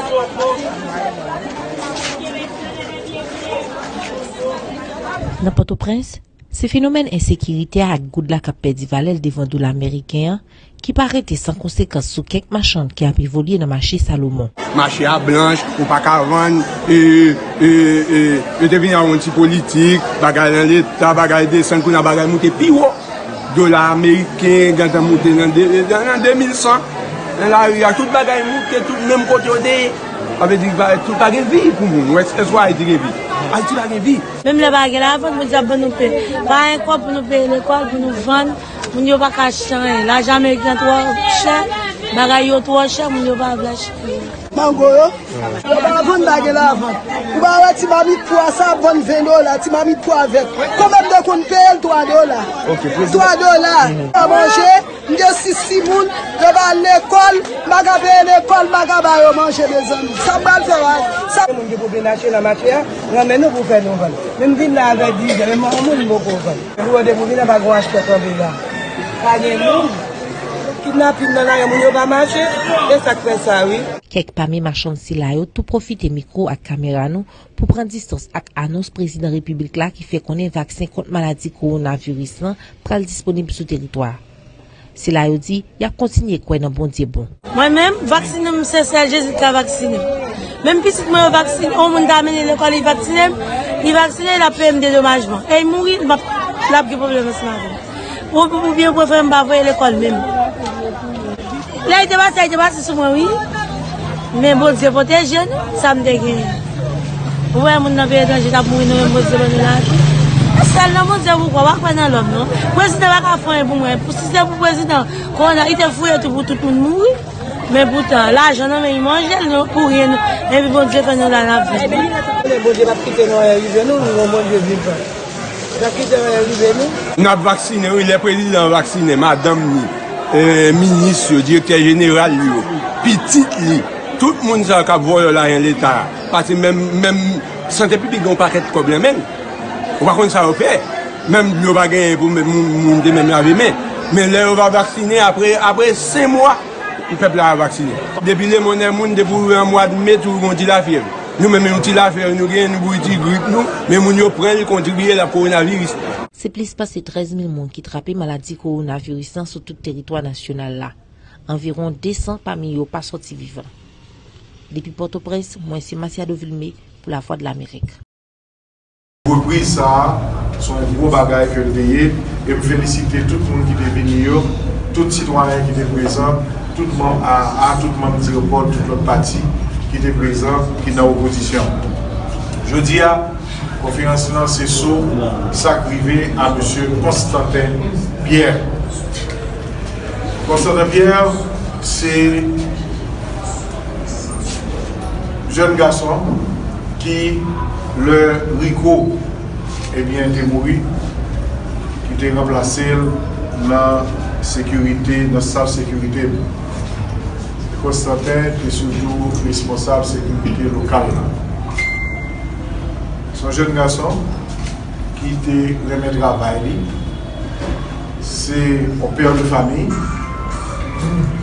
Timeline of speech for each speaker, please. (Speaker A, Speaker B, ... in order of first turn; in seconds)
Speaker A: 5.4-14.5, 74.1-84.2, 85.0-87.3, 156.3-160.9, 161.5-163.7, 164.7-167.9
Speaker B: 14.7-23.0, 23.5-26.8, 27.4-34.2, 127.2-139.3, 140.0-156.0
Speaker C: 34.4-44.3, 87.5-90.0, 90.6-97.8, 98.3-100.3, 101.8-103.4, 104.3-106.6, 107.5-110.0, 110.6-117.2, 117.7-122.0
Speaker D: 44.5-61.5
Speaker E: 61.5-68.6, 69.2-70.0, 70.8-73.9, 121.8-125.0, 125.7-127.0
Speaker F: 169.2-181.8, 182.6-188.7, 190.4-192.6, 195.4-196.4, 197.0-199.2, 199.9-200.9, 202.0-206.4, 207.7-211.3, 213.3-214.2, 215.1-216.8, 218.2-220.0